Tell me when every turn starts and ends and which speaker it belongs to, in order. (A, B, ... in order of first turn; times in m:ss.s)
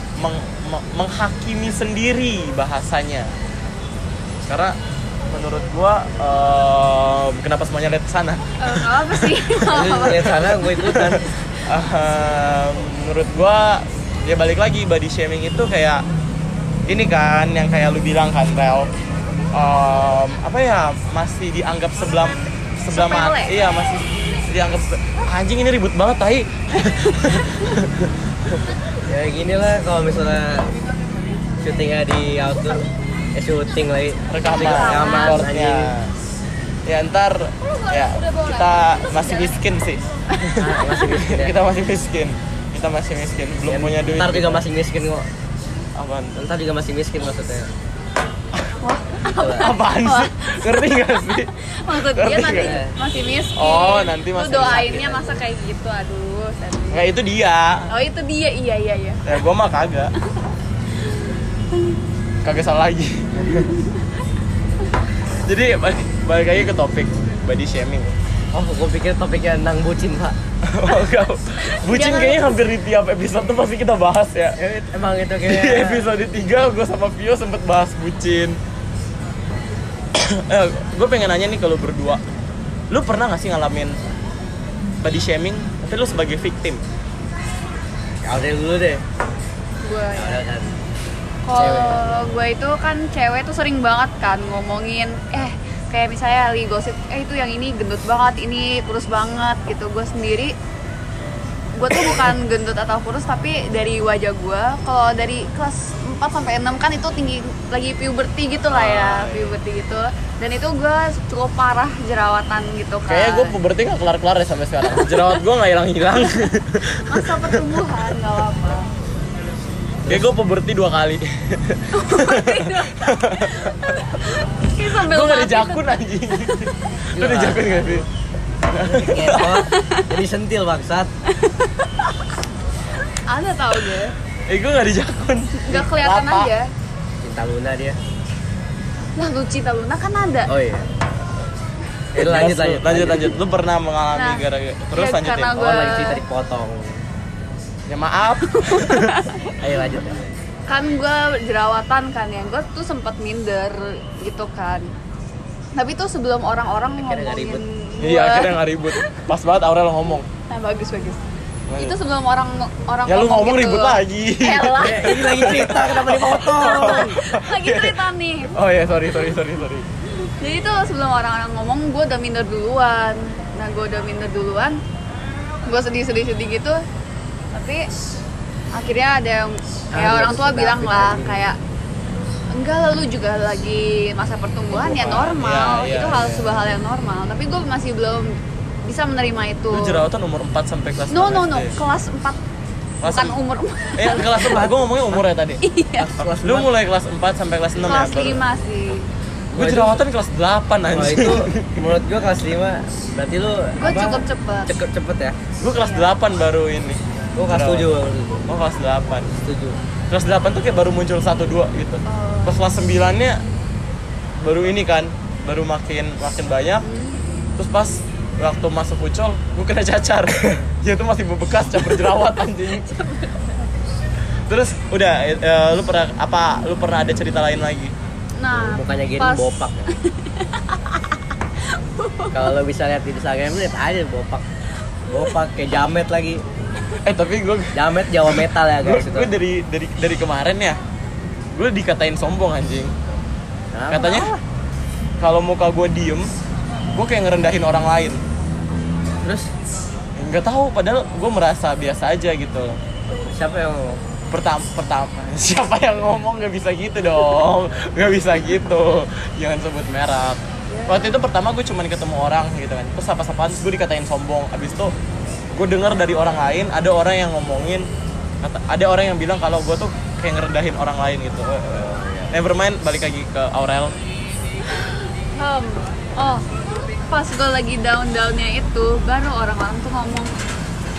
0:00.2-0:03.3 A
0:04.4-0:04.8 A
0:05.3-0:16.0 A
0:08.6-0:10.9 B
0:09.7-0:11.2 C
0:16.9-0:18.9 A
0:19.5-0:28.6 A
0:22.9-0:23.6 B
0:29.0-0:30.7 C
0:31.6-0:32.8 C
0:33.4-0:35.9 C
0:34.3-0:36.1 A
0:34.4-0:35.4 B
0:36.8-0:44.6 A
0:38.2-0:38.5 B
0:40.5-0:41.5 C
0:43.6-0:45.3 C
0:45.9-0:46.4 A
0:46.4-0:47.7 C
0:48.8-0:50.7 B
0:49.3-0:49.6 C
0:49.5-0:52.8 A
0:51.8-0:57.1 B
0:52.5-0:53.0 C
0:53.5-0:55.2 A
0:54.7-0:55.4 C
0:56.9-0:57.9 A
0:57.9-0:59.2 B
0:59.2-1:00.1 A
1:02.4-1:03.7 A
1:03.6-1:03.9 B
1:05.4-1:08.1 A
1:08.5-1:10.4 C
1:10.6-1:14.6 A
1:11.7-1:12.5 B
1:14.6-1:16.1 C
1:15.4-1:18.6 A
1:20.1-1:22.2 A
1:22.9-1:23.9 A
1:25.0-1:26.8 A
1:28.2-1:29.0 C
1:29.8-1:30.4 B
1:30.2-1:30.7 C
1:31.4-1:40.5 B
1:31.5-1:32.3 C
1:41.7-1:53.6 B
1:41.9-1:42.3 A
1:48.7-1:49.6 A
1:53.1-1:57.7 A
1:54.9-1:55.4 B
1:57.1-1:58.9 B
2:00.1-2:04.0 A
2:01.9-2:06.0 B
2:04.9-2:08.0 A
2:07.1-2:08.0 C
2:08.7-2:09.6 A
2:08.8-2:11.1 C
2:09.4-2:10.1 B
2:11.4-2:11.7 B
2:13.3-2:14.1 B
2:14.5-2:16.5 A
2:15.6-2:16.7 B
2:17.2-2:18.0 C
2:19.2-2:20.5 B
2:20.5-2:20.9 C
2:22.1-2:23.4 C
2:22.1-2:25.6 A
2:24.1-2:24.4 B
2:24.9-2:26.2 B
2:25.6-2:27.0 C
2:27.9-2:29.2 A
2:28.5-2:29.5 B
2:29.6-2:30.4 C
2:30.7-2:34.9 B
2:35.7-2:39.2 B
2:37.0-2:37.6 C
2:38.0-2:40.3 A
2:40.5-2:41.2 B
2:41.7-2:42.0 A
2:41.8-2:45.6 B
2:43.1-2:48.0 A
2:44.8-2:47.2 C
2:46.6-2:48.5 B
2:48.5-2:49.9 A
2:50.4-2:54.8 B
2:55.6-2:56.8 B
2:57.5-2:57.9 B
2:58.7-3:01.6 B
2:59.9-3:01.4 C
3:02.5-3:10.0 B
3:04.7-3:06.7 A
3:09.7-3:11.8 A
3:11.1-3:12.4 B
3:13.0-3:13.4 A
3:13.0-3:14.6 B
3:14.0-3:15.6 A
3:14.2-3:14.7 C
3:15.6-3:16.1 B
3:16.0-3:16.7 C
3:16.3-3:18.4 A
3:17.8-3:19.1 B
3:19.5-3:20.0 C
3:19.5-3:21.9 A
3:20.9-3:25.4 C
3:23.8-3:24.7 B
3:25.6-3:27.9 A
3:25.8-3:26.1 B
3:27.4-3:28.4 C
3:28.5-3:29.3 A
3:29.3-3:29.8 C
3:30.1-3:33.4 A
3:32.0-3:32.7 B
3:34.4-3:36.9 A
3:36.8-3:37.2 B
3:37.6-3:43.1 A
3:42.7-3:43.6 B
3:44.5-3:47.9 A
3:48.4-3:51.1 B
3:48.5-3:49.9 C
3:51.7-3:52.5 B
3:52.3-3:54.4 C
3:55.1-3:56.4 C
3:57.0-4:00.8 A
3:57.7-3:59.3 C
4:01.5-4:02.9 A
4:03.7-4:04.4 C
4:03.9-4:04.3 A
4:05.2-4:06.3 A
4:06.9-4:08.2 A
4:09.2-4:09.5 C
4:10.2-4:12.8 A
4:13.1-4:14.0 C
4:14.3-4:24.9 A
4:20.7-4:21.1 B
4:25.5-4:27.9 A
4:28.4-4:34.0 A
4:31.7-4:32.4 C
4:34.8-4:36.4 B
4:37.1-4:40.3 B